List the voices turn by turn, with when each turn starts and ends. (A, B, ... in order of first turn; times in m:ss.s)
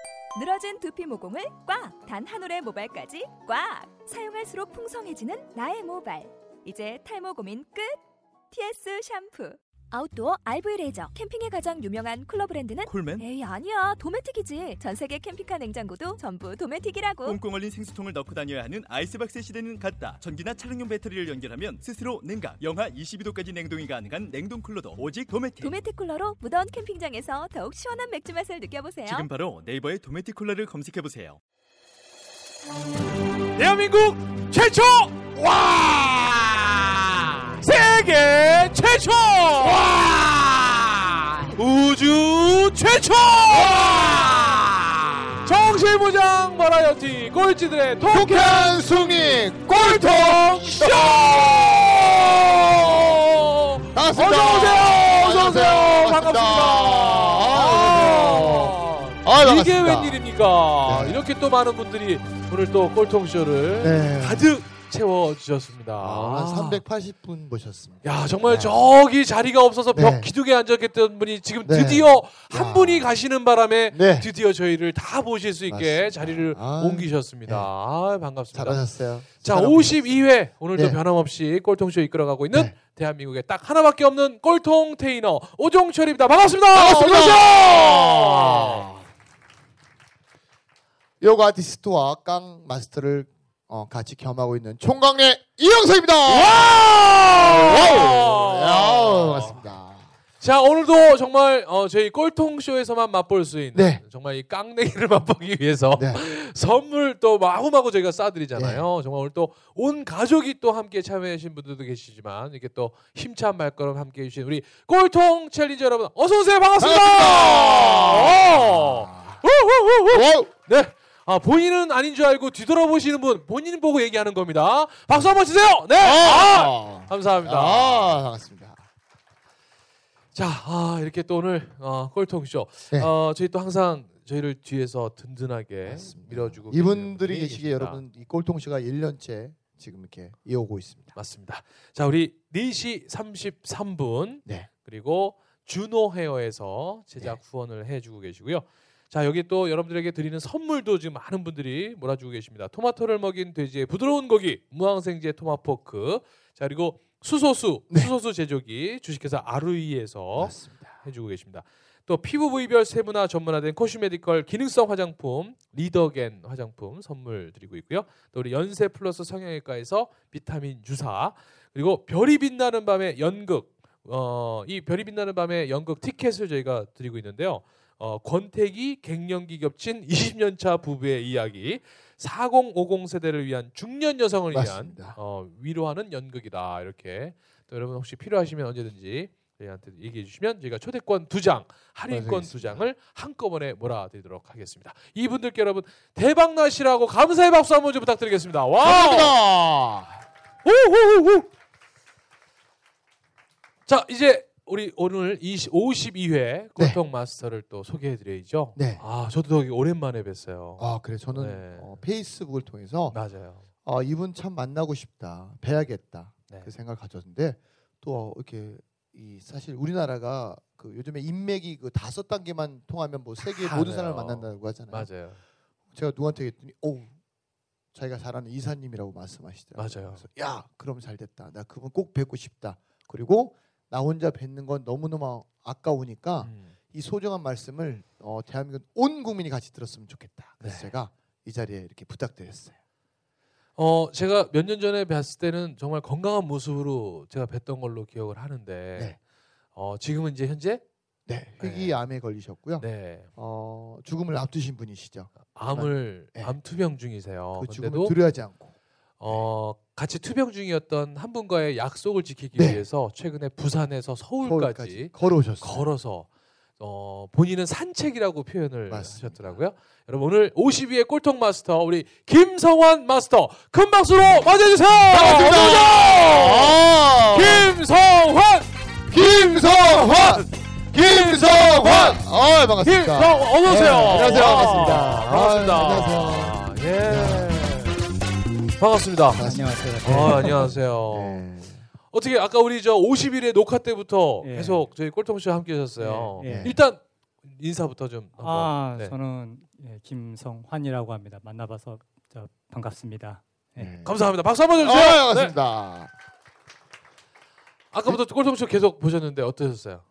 0:00.3-0:08.0 A
0:08.5-0:17.4 A
0:12.8-0:13.3 B
0:17.2-0:25.8 B
0:25.6-0:29.3 A
0:29.0-0:31.4 B
0:33.5-0:44.8 C
0:43.5-0:44.7 D
0:45.4-1:06.8 C
0:48.1-0:53.2 D
0:53.9-1:00.2 D
1:00.8-1:01.2 D
1:03.8-1:04.5 D
1:06.0-1:08.8 D
1:08.0-1:28.9 C
1:09.9-1:10.3 D
1:11.6-1:13.1 D
1:13.9-1:14.3 D
1:15.7-1:17.7 D
1:18.5-1:21.0 D
1:26.7-1:29.1 D
1:31.2-1:40.1 D
1:36.2-1:39.6 C
1:40.4-2:08.2 C
1:43.7-1:44.0 D
1:45.9-1:46.2 D
1:48.6-1:48.8 D
1:56.8-1:59.4 D
2:00.1-2:00.5 D
2:06.0-2:08.8 D
2:10.3-2:18.0 C
2:15.8-2:21.2 D
2:21.1-3:19.3 C
2:24.4-2:24.7 D
2:40.4-2:41.0 D
3:04.5-3:05.2 D
3:12.1-3:12.8 D
3:18.8-3:20.2 D
3:20.6-3:21.5 C
3:23.9-3:32.0 C
3:28.8-3:29.0 D
3:30.8-3:33.2 D
3:33.1-3:33.6 C
3:33.8-3:45.1 D
3:43.4-3:45.4 C
3:45.9-3:47.1 D
3:47.9-4:02.8 D
3:49.8-3:50.2 C
3:56.4-3:56.7 C
4:00.6-4:00.9 C
4:03.8-4:09.2 C
4:09.7-4:10.8 C
4:11.3-4:16.5 D
4:11.6-4:11.9 C
4:12.8-4:13.3 C
4:15.5-4:18.2 C
4:17.6-4:18.7 D
4:19.2-4:42.2 C
4:22.5-4:22.8 D
4:24.4-4:25.9 D
4:28.9-4:29.6 D
4:35.1-4:37.7 D
4:39.1-4:47.6 D
4:42.8-4:48.0 C
4:48.8-4:49.4 C
4:49.3-4:51.8 D
4:49.4-4:50.6 E
4:50.0-4:51.4 C
4:52.1-4:59.1 C
4:54.4-4:54.8 E
4:56.0-4:56.7 E
4:56.4-4:56.8 D
4:58.4-5:03.9 E
5:03.8-5:04.1 D
5:04.0-5:05.6 C
5:04.8-5:06.1 D
5:07.9-5:10.0 C